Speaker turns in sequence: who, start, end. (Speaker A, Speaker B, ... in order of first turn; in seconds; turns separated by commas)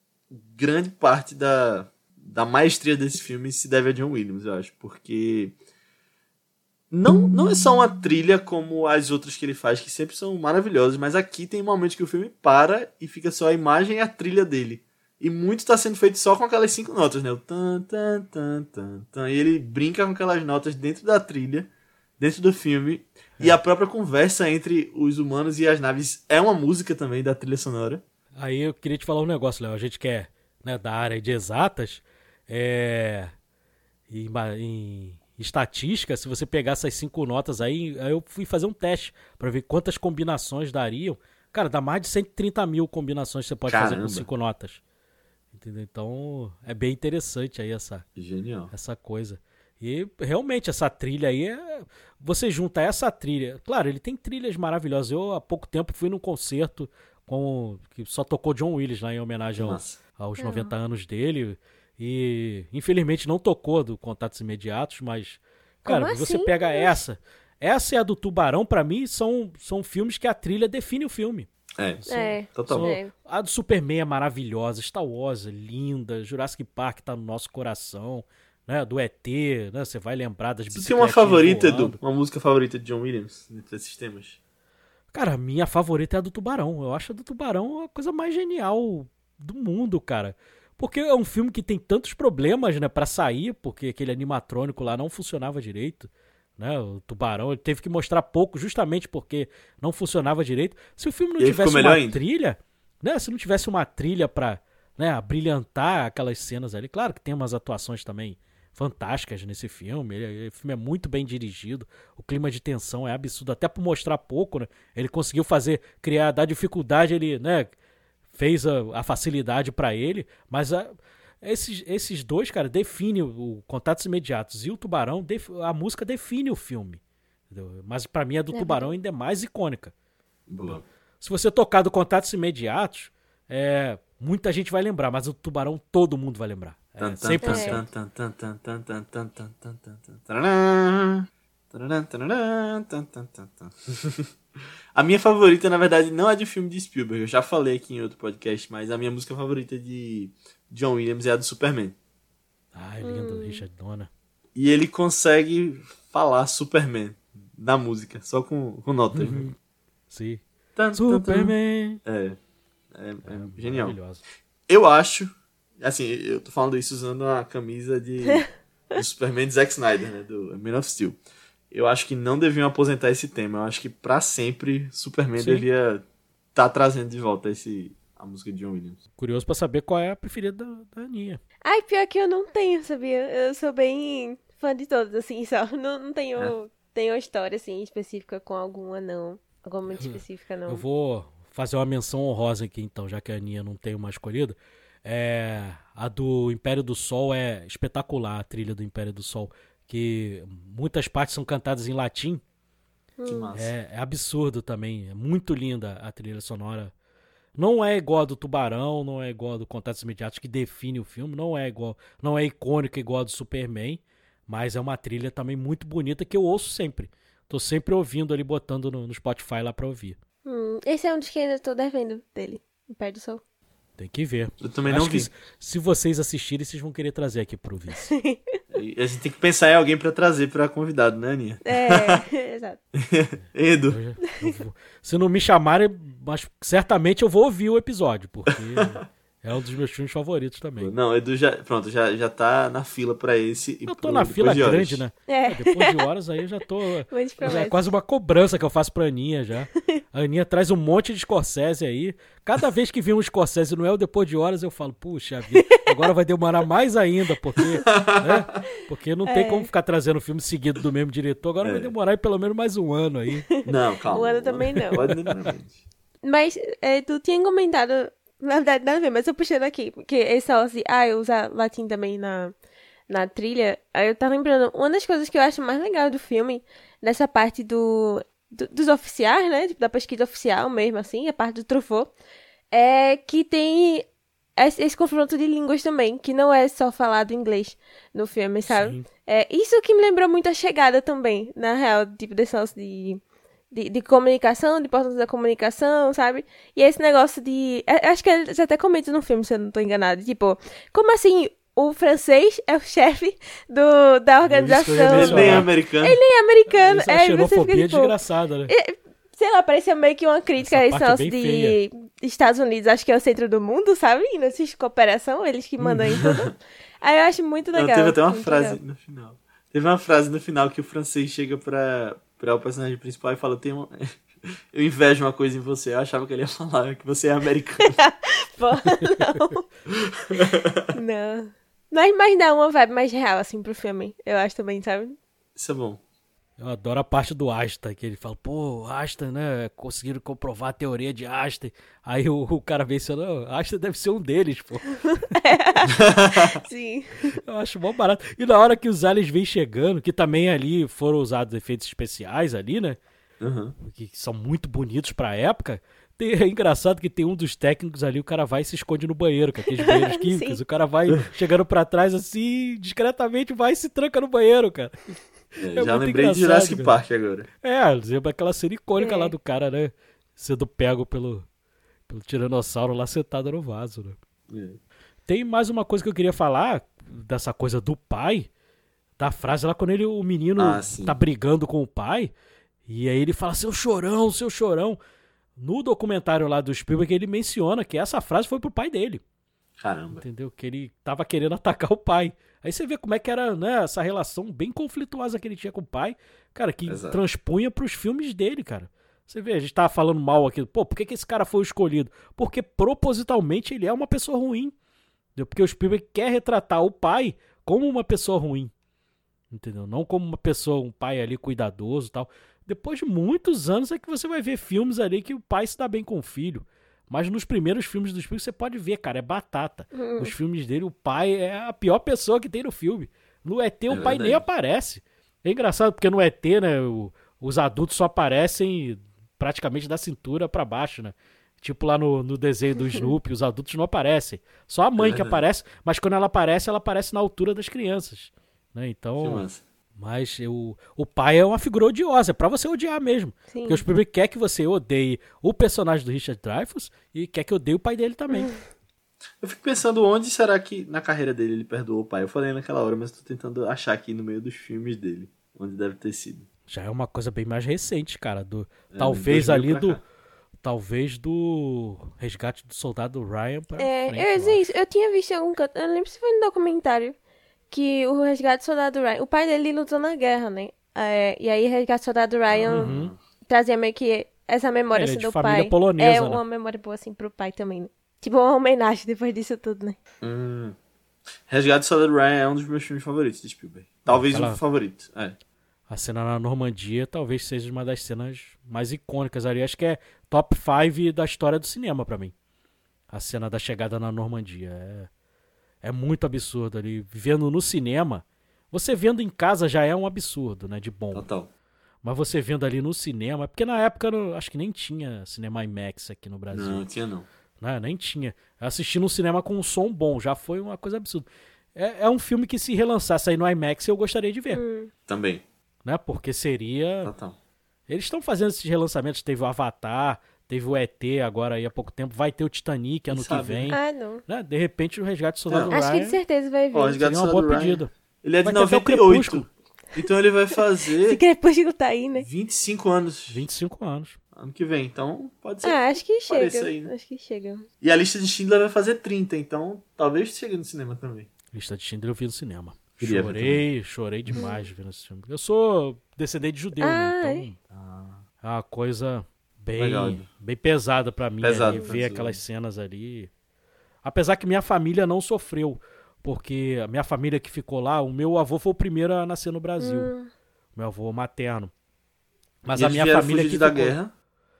Speaker A: 0.3-5.5, Speaker A: 6.9-28.0, Speaker B: 28.4-33.3, Speaker B: 34.1-44.8, Speaker A: 43.7-44.3, Speaker B: 45.5-48.0, Speaker A: 48.1-48.7, Speaker B: 48.7-71.5, Speaker A: 59.6-60.0, Speaker C: 60.4-60.7, Speaker C: 65.8-67.0, Speaker A: 71.8-72.9, Speaker B: 72.0-82.0, Speaker C: 72.1-73.1, Speaker A: 80.7-84.4, Speaker B: 85.1-117.7, Speaker A: 101.4-102.2, Speaker B: 118.3-129.9, Speaker C: 128.5-128.9, Speaker A: 130.5-130.8, Speaker B: 130.6-137.9, Speaker A: 137.0-144.3, Speaker C: 137.4-137.8, Speaker A: 144.9-151.9, Speaker B: 152.7-154.1, Speaker C: 153.0-153.6, Speaker A: 154.5-159.4, Speaker B: 159.1-159.6, Speaker B: 160.1-160.4, Speaker A: 160.8-162.4, Speaker B: 160.9-162.0, Speaker A: 162.9-163.9, Speaker B: 163.2-164.2, Speaker A: 164.7-171.2, Speaker A: 171.7-176.0, Speaker B: 175.4-175.7, Speaker A: 176.5-179.0, Speaker B: 179.2-181.4, Speaker C: 181.7-190.8, Speaker B: 189.9-202.4, Speaker C: 203.2-203.5, Speaker A: 203.2-203.7, Speaker B: 203.5-206.9, Speaker B: 207.6-220.2, Speaker C: 220.4-223.4, Speaker B: 224.0-228.1, Speaker A: 224.6-225.3, Speaker C: 228.0-228.6, Speaker A: 228.7-232.2, Speaker C: 231.7-232.8, Speaker A: 232.9-234.0, Speaker B: 233.9-240.9, Speaker A: 238.5-239.0, Speaker A: 240.8-245.0, Speaker B: 243.8-263.5, Speaker C: 245.3-246.0, Speaker C: 247.1-247.9, Speaker C: 255.6-255.8, Speaker A: 257.9-258.6, Speaker C: 259.3-259.7, Speaker A: 261.6-261.9, Speaker A: 263.6-265.8, Speaker C: 264.1-265.0, Speaker B: 264.8-265.3, Speaker C: 266.2-272.5, Speaker C: 273.1-282.1, Speaker C: 282.7-284.1, Speaker C: 284.6-308.1, Speaker B: 288.7-289.1, Speaker B: 304.4-305.7, Speaker A: 305.1-306.2, Speaker B: 306.8-308.7, Speaker C: 308.7-318.8, Speaker B: 310.6-311.8, Speaker A: 315.8-316.5, Speaker A: 317.7-328.0, Speaker C: 327.9-329.6, Speaker A: 330.0-330.9, Speaker C: 330.9-335.2, Speaker A: 335.6-336.0, Speaker B: 336.6-345.3, Speaker C: 345.4-347.4, Speaker A: 345.9-346.6, Speaker B: 347.3-353.0, Speaker A: 353.4-353.8, Speaker B: 353.8-366.9, Speaker C: 359.8-360.6, Speaker A: 365.6-367.5, Speaker B: 367.6-371.4, Speaker C: 369.0-369.3, Speaker B: 372.1-374.2, Speaker A: 374.5-374.8, Speaker B: 375.3-378.5, Speaker B: 379.2-382.3, Speaker A: 380.6-381.2, Speaker B: 382.9-385.0, Speaker B: 385.6-389.2, Speaker A: 389.8-390.2, Speaker B: 390.1-404.7, Speaker A: 396.9-397.2, Speaker B: 405.4-408.7, Speaker B: 409.5-439.4, Speaker C: 419.9-420.3, Speaker A: 423.9-424.4, Speaker A: 435.0-435.4, Speaker A: 439.2-439.6, Speaker B: 440.0-448.5, Speaker C: 443.5-443.8, Speaker C: 448.3-448.5, Speaker A: 449.4-456.4, Speaker B: 456.7-460.0, Speaker A: 458.9-460.0, Speaker B: 460.6-464.6, Speaker C: 463.8-467.1, Speaker C: 467.7-472.9, Speaker A: 472.5-473.2, Speaker B: 472.7-473.1, Speaker C: 473.5-480.0, Speaker B: 474.9-476.4, Speaker A: 480.2-480.8, Speaker A: 481.5-485.4, Speaker B: 484.1-484.6, Speaker B: 485.9-492.3, Speaker B: 493.1-495.1, Speaker B: 495.8-501.3, Speaker A: 501.1-501.5, Speaker B: 502.0-506.8, Speaker A: 506.5-507.3, Speaker B: 507.6-514.6, Speaker C: 514.5-514.9, Speaker A: 515.1-515.4, Speaker B: 515.8-517.1, Speaker A: 517.0-517.4, Speaker B: 517.9-526.2, Speaker A: 523.1-523.8, Speaker C: 523.7-524.2, Speaker A: 525.5-525.7, Speaker C: 525.7-527.0, Speaker A: 526.7-531.2, Speaker B: 527.0-527.9, Speaker B: 528.4-529.5, Speaker C: 531.0-532.3, Speaker A: 532.2-533.4, Speaker B: 533.3-534.2, Speaker A: 534.3-536.9, Speaker C: 535.6-537.6, Speaker A: 537.8-541.3, Speaker B: 541.5-547.6, Speaker A: 543.0-543.6, Speaker C: 544.4-544.7, Speaker C: 546.8-547.4, Speaker A: 547.7-548.2, Speaker B: 548.4-553.3, Speaker A: 549.8-550.2, Speaker A: 551.4-552.4, Speaker C: 551.7-552.0, Speaker B: 554.0-560.1, Speaker C: 559.8-560.3, Speaker B: 560.8-561.7, Speaker B: 562.6-564.0, Speaker A: 562.7-564.1